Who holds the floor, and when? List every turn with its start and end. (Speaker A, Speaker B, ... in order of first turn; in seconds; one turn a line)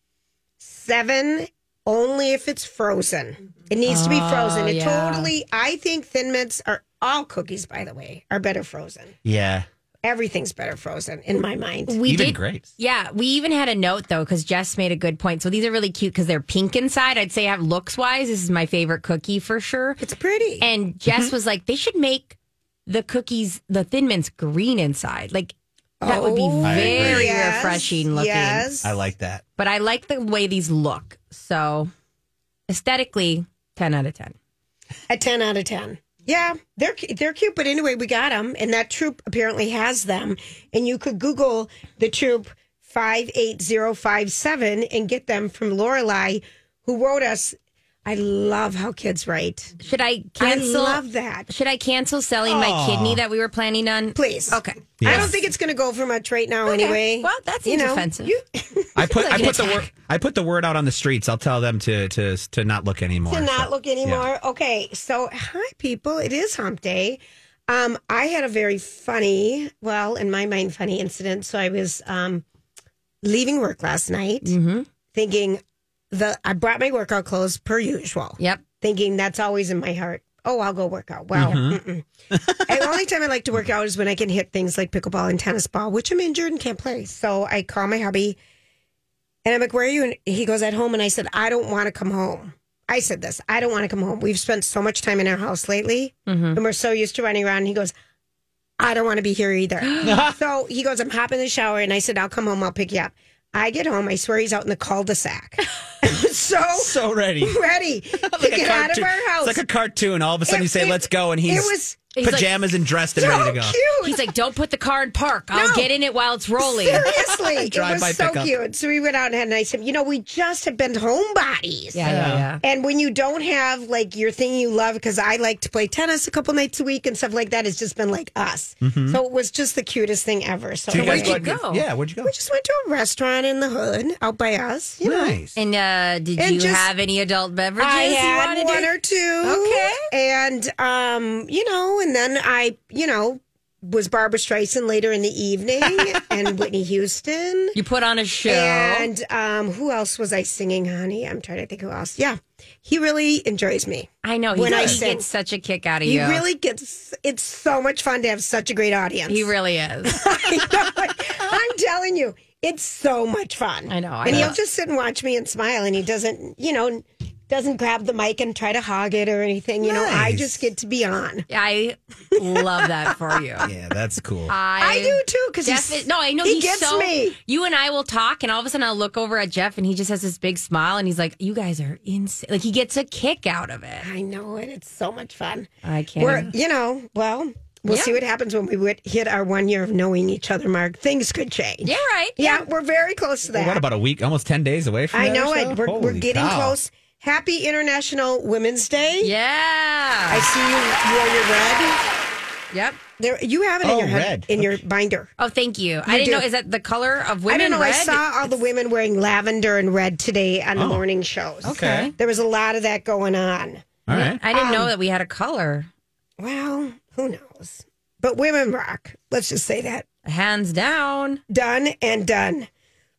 Speaker A: 0.6-9.1
Speaker B: 3.9-5.3
Speaker C: 9.2-9.7
Speaker A: 10.0-12.0
Speaker B: 11.9-20.0
Speaker C: 12.0-12.7
Speaker A: 20.0-20.7
Speaker B: 20.6-28.7
Speaker A: 26.0-28.9
Speaker C: 26.6-27.8
Speaker C: 28.8-29.4
Speaker B: 29.6-31.9
Speaker B: 32.7-34.3
Speaker A: 35.1-49.7
Speaker B: 49.8-55.3
Speaker A: 50.4-51.5
Speaker C: 52.4-53.2
Speaker A: 54.1-59.8
Speaker C: 55.0-55.3
Speaker B: 56.6-58.3
Speaker C: 59.0-64.3
Speaker B: 59.3-59.9
Speaker A: 63.3-72.4
Speaker A: 73.2-74.5
Speaker B: 74.4-74.9
Speaker A: 75.1-82.1
Speaker C: 81.3-81.8
Speaker C: 82.3-82.9
Speaker A: 82.7-88.4
Speaker A: 89.4-97.9
Speaker B: 96.3-96.6
Speaker A: 98.8-109.6
Speaker C: 100.0-100.4
Speaker C: 106.8-107.5
Speaker C: 108.2-113.8
Speaker A: 110.5-112.1
Speaker B: 112.1-112.5
Speaker A: 113.2-114.3
Speaker B: 114.0-117.0
Speaker A: 115.5-115.9
Speaker A: 116.6-131.4
Speaker C: 117.0-118.5
Speaker B: 121.9-122.6
Speaker C: 122.0-122.5
Speaker C: 128.8-129.2
Speaker C: 130.9-132.3
Speaker B: 130.9-131.8
Speaker A: 132.2-135.3
Speaker C: 135.0-135.6
Speaker B: 135.6-138.9
Speaker A: 136.4-136.9
Speaker A: 137.8-147.8
Speaker B: 139.4-140.1
Speaker B: 147.7-149.1
Speaker A: 148.5-155.2
Speaker B: 154.2-156.4
Speaker C: 154.7-155.0
Speaker A: 156.1-159.5
Speaker B: 159.3-160.2
Speaker A: 160.1-171.4
Speaker B: 163.9-164.5
Speaker C: 164.3-164.5
Speaker C: 169.8-170.7
Speaker B: 171.5-173.7
Speaker C: 173.6-174.5
Speaker B: 174.5-184.1
Speaker A: 174.8-177.3
Speaker A: 184.0-193.8
Speaker B: 185.8-186.5
Speaker B: 187.9-188.2
Speaker B: 191.8-192.6
Speaker C: 193.5-196.8
Speaker A: 195.1-199.3
Speaker B: 199.2-200.5
Speaker A: 200.3-202.0
Speaker B: 202.7-203.0
Speaker A: 203.2-205.3
Speaker C: 203.8-204.8
Speaker B: 205.4-208.2
Speaker A: 206.1-206.4
Speaker A: 207.5-214.0
Speaker C: 210.8-211.0
Speaker C: 211.6-212.1
Speaker B: 211.7-212.1
Speaker C: 214.1-214.4
Speaker B: 214.1-215.9
Speaker A: 214.5-214.9
Speaker A: 216.4-220.1
Speaker B: 220.2-221.4
Speaker A: 221.5-222.7